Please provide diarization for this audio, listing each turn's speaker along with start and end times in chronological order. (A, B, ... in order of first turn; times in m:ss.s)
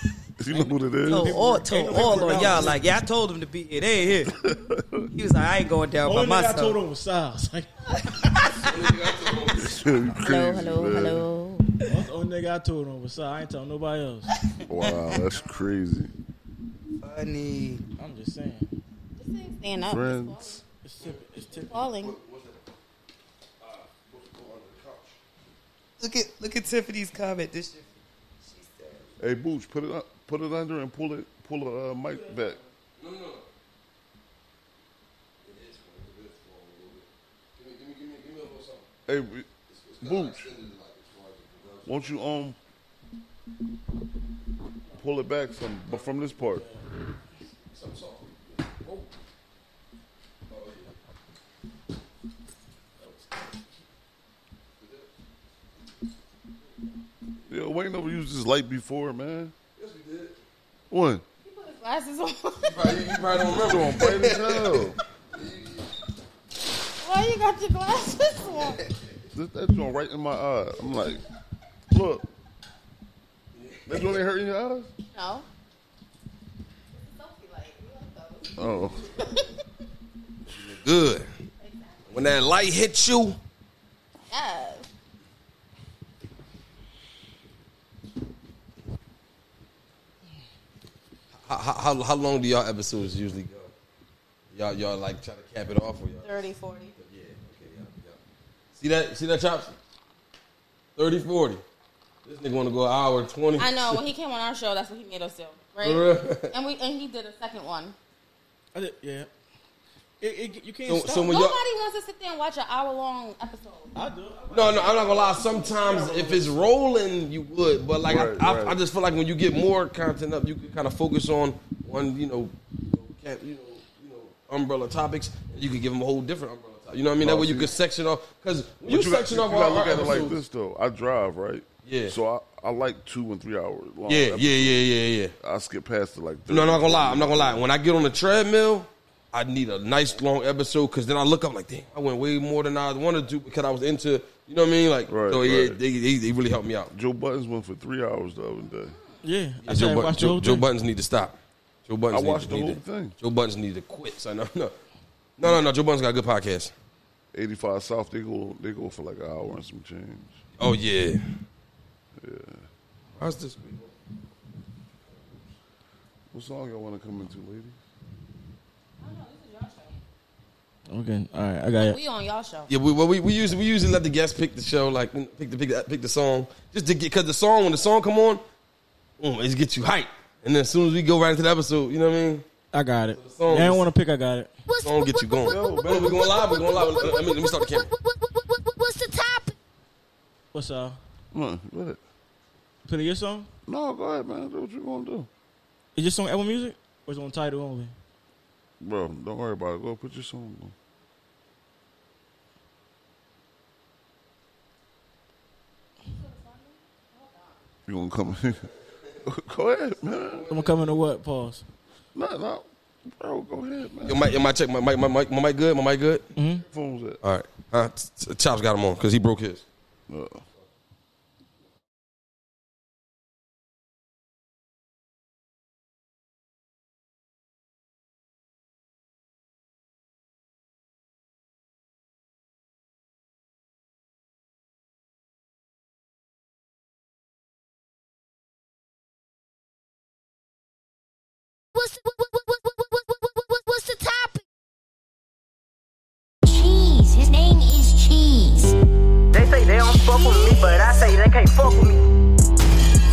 0:00.4-0:01.4 A
0:00.5-0:02.8 B
0:01.0-0:04.3 C
0:04.4-0:05.0 A
0:05.1-0:06.8 C
0:06.0-0:07.7 B
0:08.5-0:09.8 D
0:09.5-0:11.2 A
0:10.2-0:11.7 E
0:11.8-0:14.3 B
0:14.7-0:16.1 A
0:17.0-0:17.8 C
0:18.0-0:18.7 B
0:19.2-0:20.6 E
0:19.8-0:20.6 A
0:20.8-0:21.8 B
0:21.6-0:22.2 E
0:22.0-0:22.6 D
0:23.6-0:25.2 D
0:26.0-0:27.9 C
0:28.4-0:29.1 C
0:29.2-0:32.6 A
0:33.0-0:33.4 D
0:35.4-0:38.8 D
0:39.1-0:40.5 A
0:39.7-0:42.1 D
0:41.8-0:42.6 A
0:45.0-0:46.6 A
0:47.7-0:49.1 D
0:50.5-0:50.9 D
0:54.8-0:55.0 D
0:57.5-0:59.5 A
0:59.8-1:00.4 D
1:00.9-1:01.2 A
1:01.4-1:03.0 E
1:02.6-1:05.8 D
1:03.6-1:05.0 A
1:07.0-1:08.8 E
1:09.3-1:11.2 A
1:11.9-1:12.2 A
1:13.6-1:14.1 D
1:13.9-1:14.9 A
1:15.0-1:15.4 E
1:16.9-1:19.5 E
1:18.6-1:19.0 A
1:20.7-1:21.3 D
1:21.6-1:22.2 E
1:22.1-1:23.4 D
1:24.3-1:24.9 E
1:31.4-1:33.7 D
1:34.5-1:36.3 D
1:36.2-1:36.9 E
1:37.0-1:38.2 D
1:38.8-1:39.7 D
1:41.0-1:41.6 D
1:42.2-1:44.0 D
1:43.6-1:47.9 E
1:45.8-1:46.5 D
1:48.7-1:49.3 B
1:50.2-1:51.4 B
1:50.8-1:51.6 D
1:51.0-1:53.9 E
1:53.9-1:56.6 B
1:54.5-2:10.4 D
1:58.0-1:58.8 A
2:07.2-2:07.7 A
2:08.8-2:14.8 A
2:11.8-2:12.1 D
2:14.1-2:15.3 D
2:15.4-2:17.6 A
2:16.5-2:26.9 D
2:25.1-2:25.8 A
2:26.9-2:28.9 A
2:29.2-2:30.6 B
2:29.6-2:31.4 D
2:31.9-2:34.7 D
2:32.1-2:33.1 A
2:35.4-2:36.7 D
2:37.3-2:40.4 A
2:40.6-2:41.2 D
2:42.2-2:42.6 A
2:43.2-2:43.9 D
2:46.3-2:47.8 A
2:49.0-2:50.0 E
2:50.9-2:52.0 B
2:51.8-2:52.7 E
2:52.7-2:58.4 D
2:59.2-3:02.4 D
3:02.7-3:04.5 B
3:03.1-3:03.8 D
3:04.7-3:05.1 F
3:04.8-3:07.9 D
3:05.5-3:06.4 A
3:06.7-3:09.5 F
3:10.5-3:11.0 B
3:11.3-3:12.0 A
3:12.8-3:13.5 B
3:13.6-3:15.3 A
3:16.0-3:17.9 B
3:18.8-3:20.7 A
3:26.1-3:27.6 E
3:27.9-3:28.7 A
3:29.2-3:30.5 A
3:30.5-3:31.6 B
3:32.1-3:34.3 A
3:34.0-3:36.2 D
3:36.4-3:36.6 B
3:36.6-3:37.2 A
3:37.2-3:39.6 D
3:40.1-3:40.4 A
4:01.7-4:04.4 F
4:06.5-4:08.7 F
4:09.3-4:12.0 G